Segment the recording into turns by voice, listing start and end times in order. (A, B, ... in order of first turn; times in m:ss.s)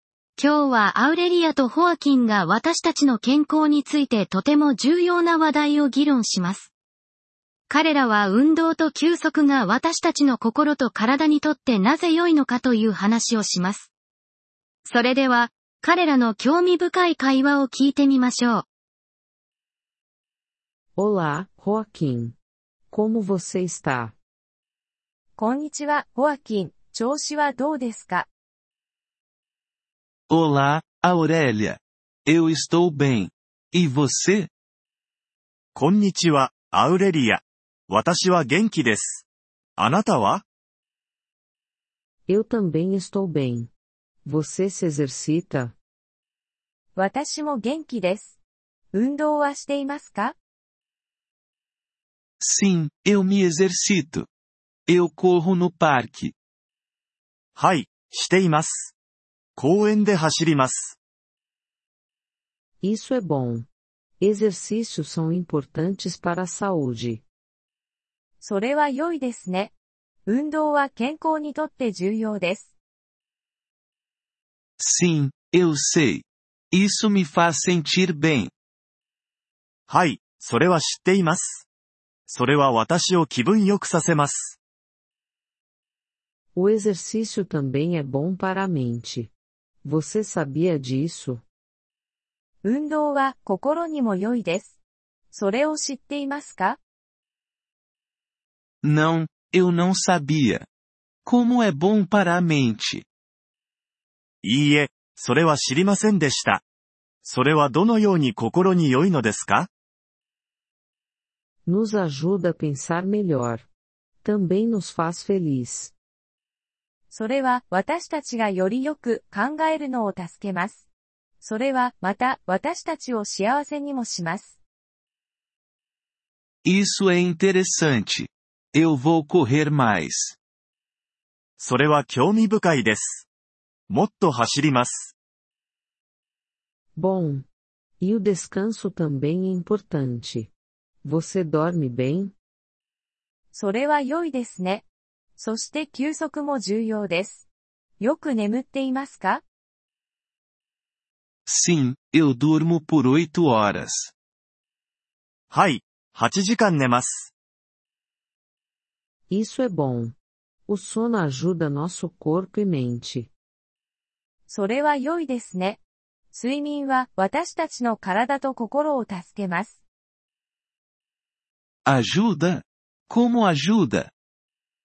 0:00.4-0:06.7 A
0:07.7-0:13.9 A
0:14.8-0:18.6 A
0:21.0-0:22.4 B
0:22.9-0:24.2 B
0:25.4-0:28.3 C
0:30.3-0:34.5 D
0:35.8-0:39.2 E
0:39.8-0:40.4 E
0:42.3-0:43.7 B
0:44.2-0:45.8 B
0:47.0-0:48.4 C
0:48.9-0:50.4 C
0:52.4-0:54.3 D
0:54.9-0:56.4 D
0:57.6-0:58.9 E
0:59.6-1:01.0 E
1:02.8-1:03.7 B
1:04.2-1:07.2 B
1:08.4-1:09.7 C
1:10.3-1:12.7 C
1:14.8-1:18.5 D
1:19.9-1:21.7 E
1:22.3-1:24.6 E
1:26.6-1:29.3 B
1:29.8-1:31.4 B
1:32.6-1:34.8 C
1:35.3-1:36.8 C
1:38.8-1:40.7 D
1:41.3-1:43.0 D
1:44.4-1:46.6 E
1:47.2-1:49.7 E
1:51.7-1:53.7 B
1:54.2-1:55.9 B
1:57.1-2:00.8 C
2:01.4-2:04.6 C
2:06.6-2:10.4 D
2:11.6-2:13.3 E
2:13.9-2:15.1 E
2:17.0-2:17.5 B
2:18.0-2:20.5 B
2:21.0-2:22.3 B
2:23.5-2:24.9 C
2:25.4-2:27.5 C
2:28.0-2:29.4 C
2:31.5-2:34.1 D
2:35.5-2:37.3 E
2:39.3-2:40.2 B
2:40.7-2:43.3 B
2:44.5-2:45.8 C
2:46.3-2:49.8 C
2:51.9-2:54.1 D